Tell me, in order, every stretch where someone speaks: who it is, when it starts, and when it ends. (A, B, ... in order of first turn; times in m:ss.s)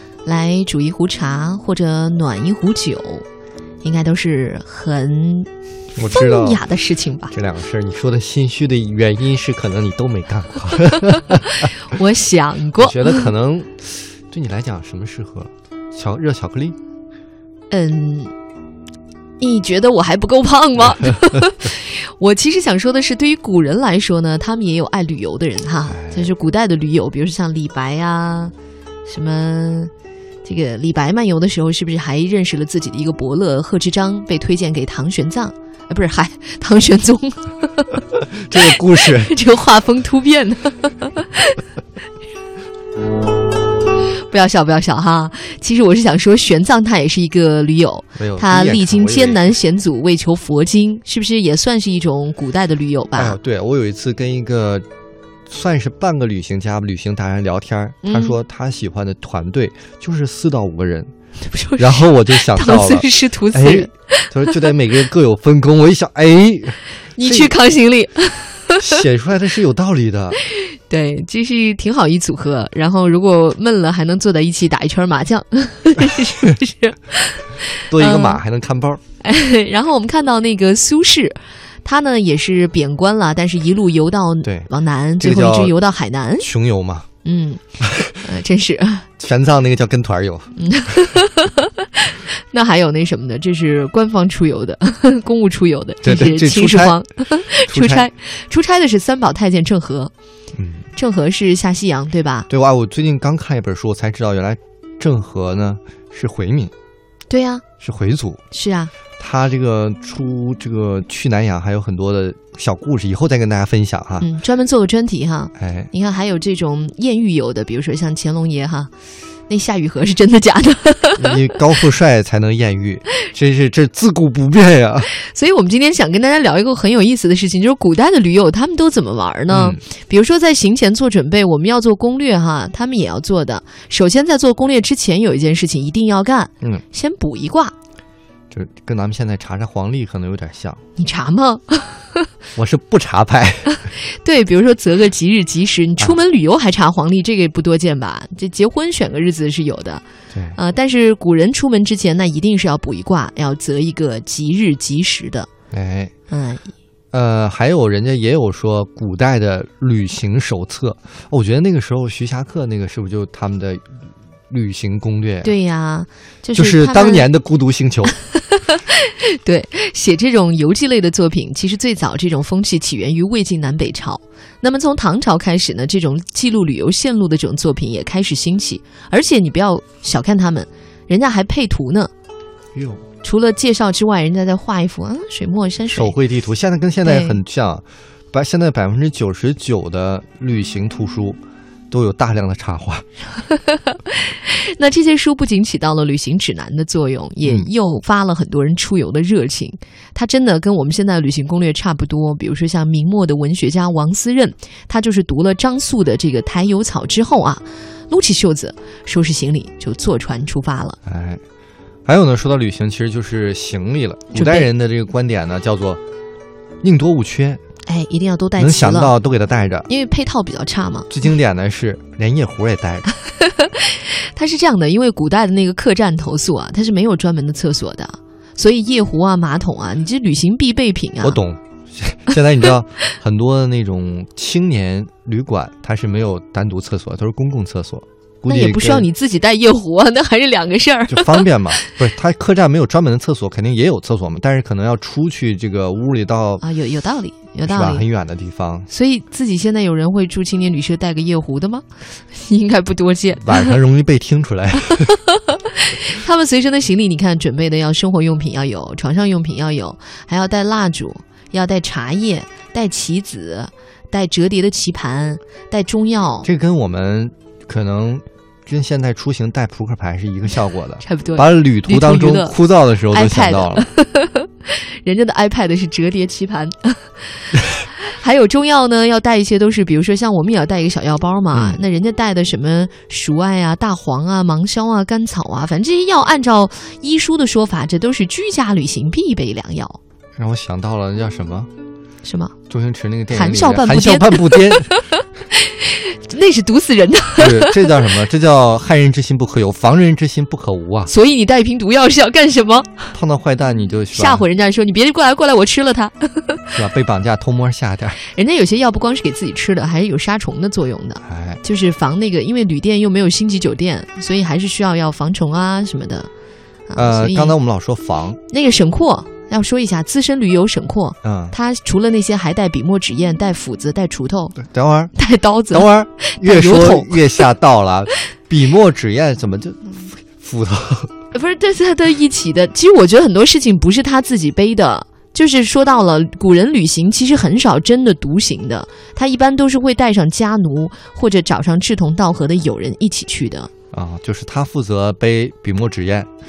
0:00.2-0:03.2 A
0:03.8-0:05.5 A
0:05.9-0:06.6 B
0:06.0-0:07.3 A
0:07.3-0:11.6 B
0:10.8-0:13.3 A
0:12.8-0:16.8 B
0:17.7-0:18.3 A
0:19.4-0:28.5 A
0:25.9-0:26.3 B
0:29.0-0:29.9 A
0:30.4-0:38.0 A
0:38.3-0:39.3 B
0:38.6-0:41.6 A
0:44.3-0:53.4 A
0:48.2-0:49.5 B
0:53.2-0:54.8 B
0:55.5-1:01.1 B
0:58.0-0:58.3 A
1:01.4-1:04.6 A
1:01.8-1:07.5 B
1:07.2-1:09.0 A
1:08.8-1:10.4 B
1:10.4-1:18.4 A
1:17.9-1:19.0 B
1:19.2-1:26.5 A
1:24.4-1:25.8 B
1:26.4-1:27.1 B
1:27.2-1:27.6 A
1:27.8-1:28.2 B
1:28.1-1:29.1 A
1:29.2-1:30.6 B
1:30.5-1:40.1 A
1:36.0-1:37.0 B
1:37.6-1:38.1 B
1:40.6-1:40.8 B
1:41.0-1:42.5 A
1:42.5-1:46.7 B
1:47.3-1:47.6 A
1:47.8-1:48.4 B
1:48.5-1:48.9 A
1:49.2-1:54.3 B
1:54.2-1:58.9 A
1:55.6-1:55.9 B
1:59.5-2:01.4 A
2:01.2-2:05.1 B
2:05.1-2:17.7 A
2:09.5-2:09.8 B
2:18.5-2:20.8 B
2:21.0-2:22.3 A
2:22.6-2:23.8 B
2:23.7-2:30.0 A
2:30.5-2:35.5 A
2:35.7-2:36.1 B
2:36.3-2:36.6 A
2:37.1-2:43.8 B
2:44.5-2:45.5 B
2:45.4-2:47.3 A
2:46.6-2:48.1 B
2:48.3-3:02.1 A
3:02.7-3:03.0 B
3:03.2-3:06.1 A
3:05.9-3:11.4 B
3:07.0-3:07.4 A
3:11.9-3:13.0 B
3:13.4-3:31.0 A
3:17.4-3:17.7 B
3:31.0-3:31.4 B
3:32.0-3:36.0 B
3:34.3-3:34.7 A
3:36.8-3:37.6 B
3:37.8-3:39.1 A
3:38.6-3:39.9 B
3:39.9-3:41.1 A
3:41.1-3:43.1 B
3:43.4-3:51.4 A
3:51.2-3:59.1 B
3:58.5-4:01.9 A
4:01.1-4:06.6 B
4:06.6-4:08.0 A
4:07.6-4:08.9 B
4:08.9-4:13.8 A
4:13.4-4:15.1 B
4:14.9-4:26.5 A
4:26.4-4:33.9 B
4:31.0-4:32.6 A
4:33.1-4:50.0 A
4:41.5-4:41.8 B
4:50.4-4:51.7 B
4:52.2-4:52.5 A
4:52.7-4:54.9 B
4:53.3-4:58.0 A
4:57.4-5:01.1 B
5:01.1-5:03.1 A
5:03.1-5:04.4 B
5:04.1-5:06.8 A
5:06.7-5:08.2 B
5:08.2-5:16.3 A
5:11.2-5:11.6 B
5:16.9-5:17.6 A
5:16.9-5:18.4 B
5:18.5-5:24.6 A
5:21.2-5:21.6 B
5:24.6-5:25.1 B
5:25.1-5:27.4 A
5:25.7-5:31.1 B
5:31.3-5:43.7 A
5:43.9-5:46.3 B